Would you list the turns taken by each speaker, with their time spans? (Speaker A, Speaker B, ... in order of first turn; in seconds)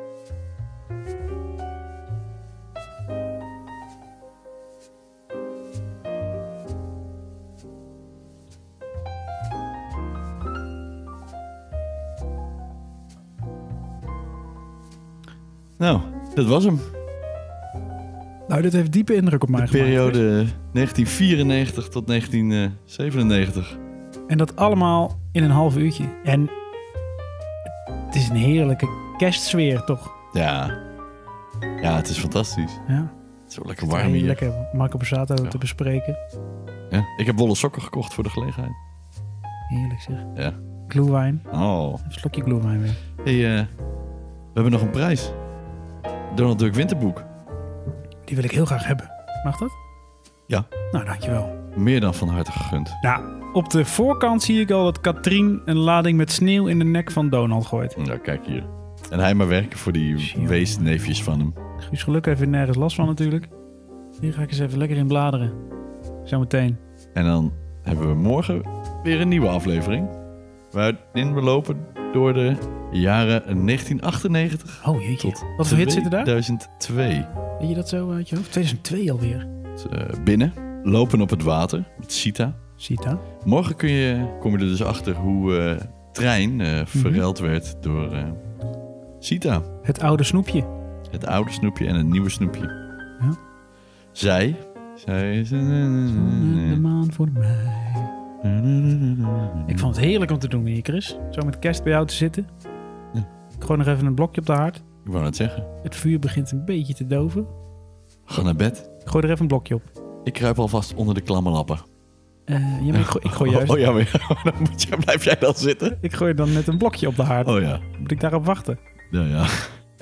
Speaker A: 15.8-16.9, 19.5-23.8, 30.3-30.8, 31.8-32.8, 33.5-34.4, 36.9-38.8, 41.5-42.0, 43.2-43.7, 44.5-45.4, 46.3-47.3, 51.7-53.0, 58.0-61.5, 67.1-70.1, 70.7-77.3, 79.8-82.6, 83.4-88.4, 89.2-89.7, 91.1-92.7, 94.1-96.8, 98.4-99.9, 105.0-105.7, 108.3-108.9, 110.2-111.8, 112.9-116.0, 117.4-117.9, 119.1-119.8
Speaker B: 18.5-20.2, 24.3-26.5, 28.1-30.1, 32.9-33.1, 33.8-36.2, 39.7-40.3, 40.9-41.5, 42.0-43.0, 48.3-49.7, 50.9-51.5, 53.0-58.0, 60.2-61.1, 61.8-63.5, 64.2-65.6, 66.2-66.8, 74.8-76.3, 77.6-79.5, 82.8-83.2, 86.9-87.2, 89.8-90.7, 96.1-98.1, 99.7-102.5, 103.6-104.8, 105.8-107.5, 109.0-109.9, 112.5-113.8, 116.0-118.8